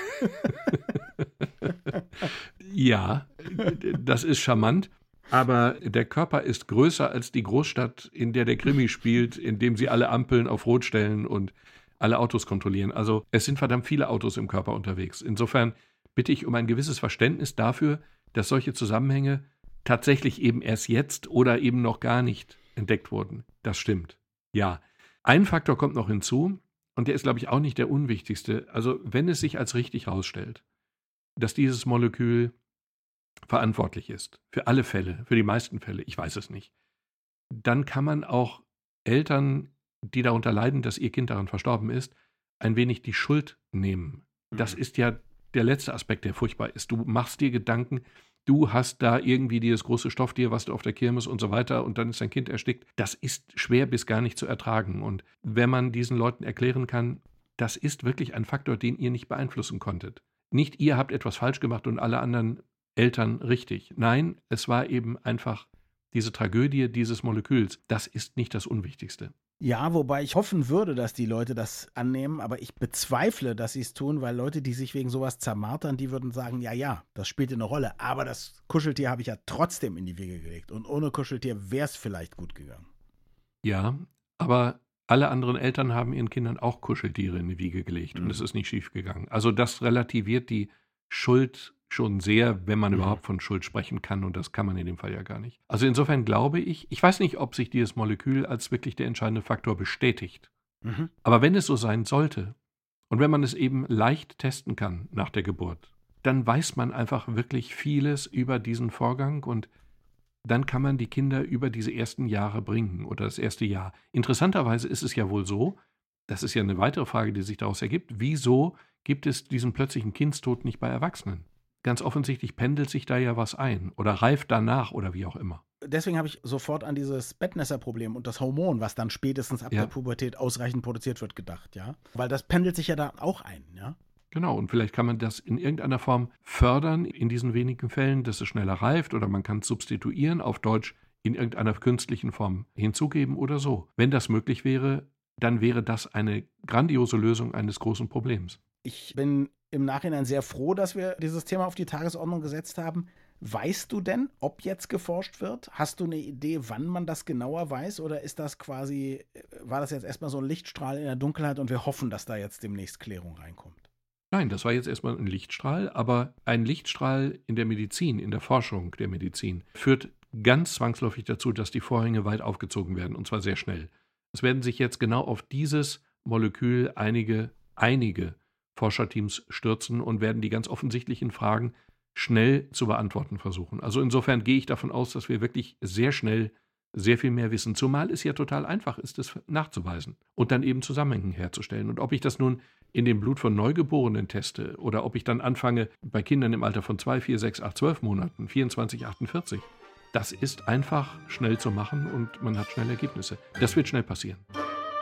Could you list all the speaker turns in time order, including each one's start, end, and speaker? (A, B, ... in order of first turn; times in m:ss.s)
0:00.2-0:30.6 A
0:00.5-0:00.8 B
0:31.4-0:32.5 A
0:33.5-0:36.7 A
0:37.6-1:09.3 A
0:44.5-0:44.8 B
1:09.6-1:22.9 B
1:23.6-1:40.5 A
1:28.2-1:28.4 B
1:32.9-1:33.2 B
1:40.8-1:41.1 B
1:41.2-1:42.5 A
1:43.1-1:49.7 A
1:50.4-2:05.6 A
2:05.8-2:14.0 B
2:14.3-2:28.6 A
2:28.8-2:43.9 B
2:44.3-3:24.4 A